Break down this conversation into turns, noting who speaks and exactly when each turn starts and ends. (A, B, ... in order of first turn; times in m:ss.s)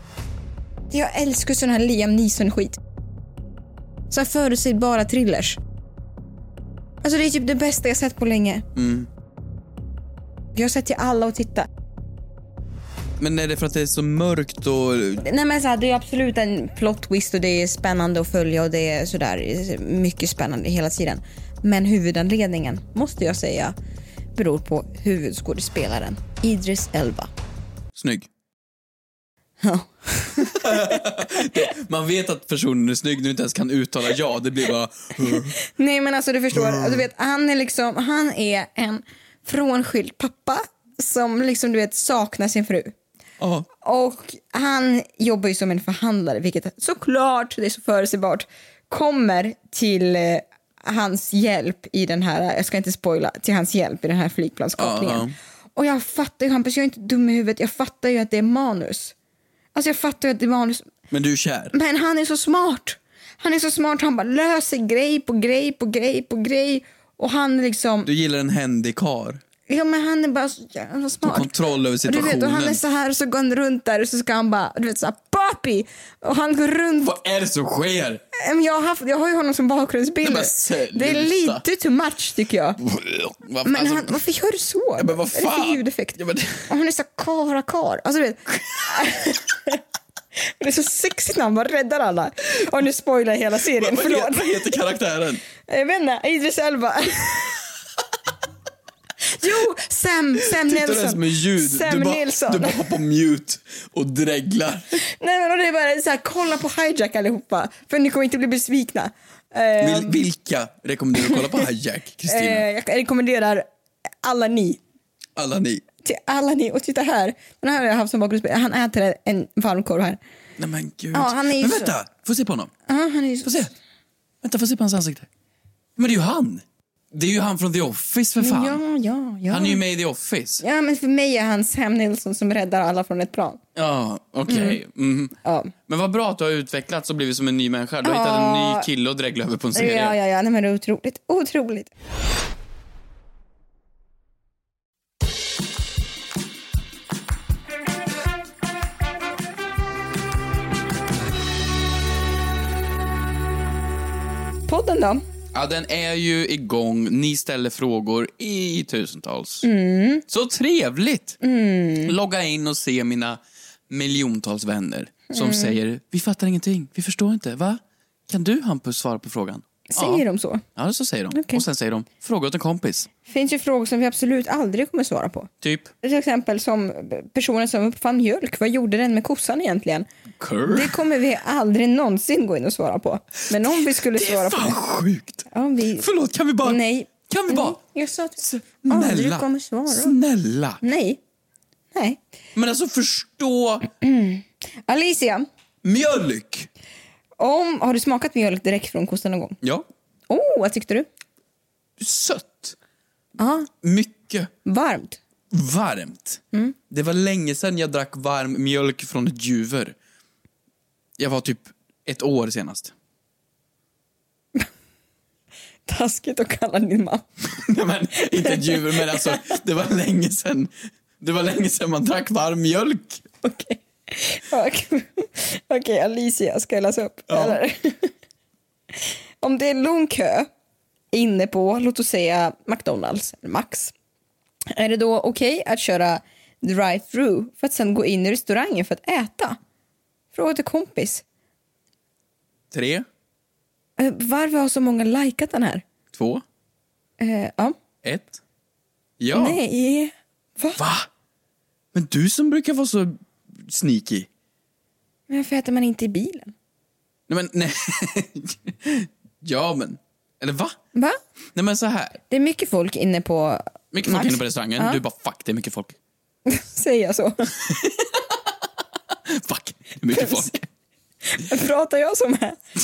0:00.9-0:02.8 A
0:04.1-0:05.6 A
0:07.0-0:08.6 A
0:08.7-0:09.1 B
0:10.5-0:11.7 A
0:13.2-0:15.2 B
0:15.2-0:23.7 A
0:24.3-0:27.3 A
0:27.9-0:28.3 B
0:29.6-0:31.6 A
0:30.5-0:35.6 B
0:35.3-0:42.9 A
0:36.5-0:37.0 B
0:43.4-0:43.7 B
0:43.8-0:59.1 A
0:54.8-0:55.4 B
0:59.7-1:00.9 A
1:01.1-1:01.7 B
1:01.7-1:08.1 A
1:08.0-1:09.4 B
1:09.7-1:11.5 A
1:11.2-1:12.8 B
1:12.0-1:17.1 A
1:17.0-1:18.2 B
1:18.3-1:22.8 A
1:20.2-1:21.6 B
1:22.8-1:24.2 B
1:23.6-1:29.8 A
1:25.0-1:26.7 B
1:30.4-1:34.7 A
1:33.6-1:35.4 B
1:35.6-1:37.6 A
1:39.3-1:42.9 A
1:40.4-1:45.0 B
1:45.0-1:50.2 A
1:49.8-1:52.6 B
1:51.2-1:51.6 A
1:52.2-1:53.6 A
1:54.2-1:54.8 A
1:55.4-1:55.8 B
1:56.0-2:00.2 A
2:00.6-2:02.7 B
2:01.1-2:01.9 A
2:02.9-2:03.6 A
2:03.4-2:03.7 B
2:04.4-2:05.3 B
2:06.0-2:08.8 B
2:08.4-2:09.8 A
2:09.5-2:10.6 B
2:10.6-2:13.6 A
2:13.7-2:15.4 B
2:14.5-2:14.8 A
2:15.4-2:15.7 A
2:15.9-2:20.2 B
2:18.0-2:18.9 A
2:19.7-2:21.9 A
2:34.7-2:35.2 A
2:35.5-2:39.7 B
2:39.6-2:40.2 A
2:40.3-2:41.4 B
2:41.4-2:42.1 A
2:42.0-2:50.2 B
2:45.3-2:45.8 A
2:49.9-2:50.6 A
2:50.8-2:53.1 B
2:51.3-2:51.6 A
2:53.2-2:55.5 A
2:55.6-2:55.9 B
2:56.0-3:00.0 A
3:00.4-3:01.0 B
3:00.6-3:04.8 A
3:03.5-3:05.5 B
3:05.5-3:06.1 A
3:06.0-3:07.8 B
3:06.6-3:10.2 A
3:08.4-3:10.8 B
3:10.8-3:11.2 A
3:11.9-3:12.2 A
3:12.5-3:13.8 B
3:14.0-3:15.5 A
3:15.8-3:16.7 B
3:17.4-3:19.6 A
3:19.6-3:19.9 B
3:20.3-3:21.1 A
3:22.0-3:22.8 B
3:23.4-3:23.7 A
3:23.8-3:24.5 B
3:24.6-3:25.2 A
3:25.5-3:29.9 B
3:31.2-3:32.9 B
3:35.9-3:37.2 A
3:37.4-3:43.2 B
3:38.2-3:39.4 A
3:43.4-3:48.1 A
3:47.3-3:47.6 B
3:49.4-3:50.5 A
3:51.1-3:53.9 A
3:54.7-3:59.6 A
4:00.3-4:01.2 A
4:02.7-4:03.1 B
4:04.0-4:05.8 A
4:06.1-4:06.4 B
4:07.2-4:07.8 A
4:08.0-4:08.4 B
4:09.2-4:09.6 B
4:09.3-4:10.8 A
4:10.8-4:11.1 B
4:11.9-4:14.3 B
4:15.3-4:16.5 A
4:17.3-4:20.8 B
4:20.9-4:21.2 A
4:21.5-4:22.2 B
4:22.3-4:25.0 A
4:23.9-4:26.0 B
4:26.4-4:27.6 A
4:29.2-4:30.6 B
4:30.1-4:30.6 A
4:31.2-4:32.6 A